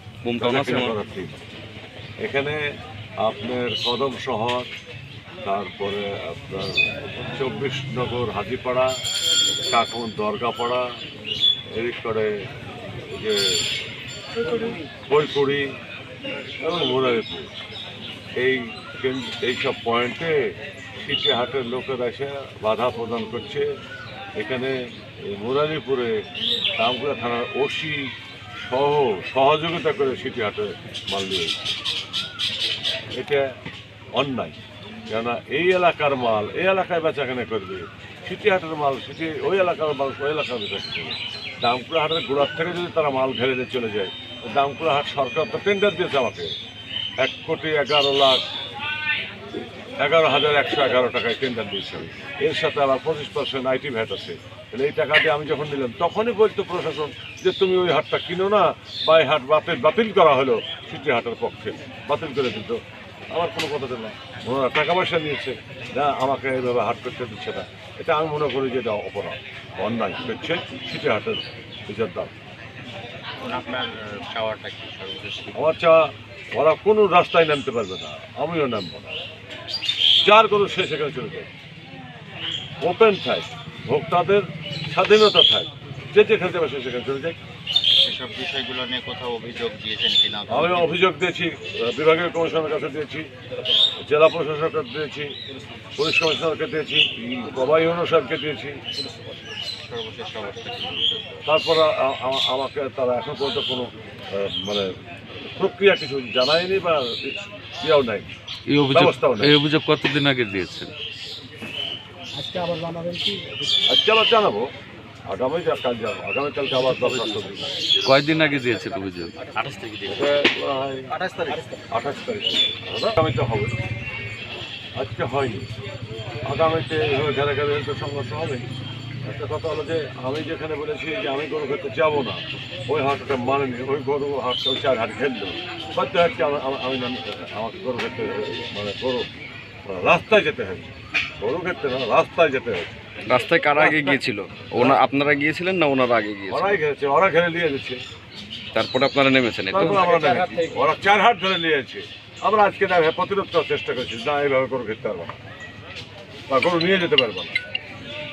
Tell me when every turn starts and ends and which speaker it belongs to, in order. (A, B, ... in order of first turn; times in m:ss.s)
0:00.2-0:01.0 A
0:00.4-0:01.3 B
0:02.2-0:02.6 B
0:03.2-0:04.7 B
0:05.4-0:08.9 B
0:09.7-0:10.8 B
0:11.8-0:12.3 B
0:12.9-0:13.6 B
0:15.1-0:15.7 B
0:16.6-0:17.5 B
0:18.4-0:20.4 B
0:21.0-0:23.7 B
0:24.4-0:26.2 B
0:26.8-0:28.1 B
0:28.6-0:31.6 B
0:33.2-0:33.4 B
0:34.2-0:34.6 B
0:35.1-0:46.5 B
0:47.2-0:48.4 B
0:50.0-1:02.8 B
1:03.3-1:12.3 B
1:13.4-1:15.6 C
1:15.5-1:19.1 B
1:20.2-1:21.5 B
1:22.8-1:27.4 B
1:28.0-1:31.0 C
1:30.5-1:33.3 B
1:34.0-1:35.3 B
1:36.0-1:38.8 B
1:39.9-1:41.4 C
1:41.5-1:44.9 B
1:45.6-1:48.3 B
1:48.7-1:50.9 D
1:48.9-1:49.6 B
1:52.4-1:53.7 D
1:53.9-1:54.7 B
1:55.3-1:57.7 B
1:58.1-1:59.3 D
1:59.4-2:00.3 C
2:00.1-2:01.1 B
2:01.1-2:01.7 C
2:01.9-2:03.7 B
2:05.0-2:05.7 B
2:06.5-2:08.7 B
2:09.3-2:19.3 B
2:19.9-2:23.0 B
2:23.3-2:26.8 A
2:26.5-2:28.0 B
2:28.7-2:30.2 A
2:29.7-2:35.4 B
2:29.9-2:30.7 C
2:36.5-2:37.6 B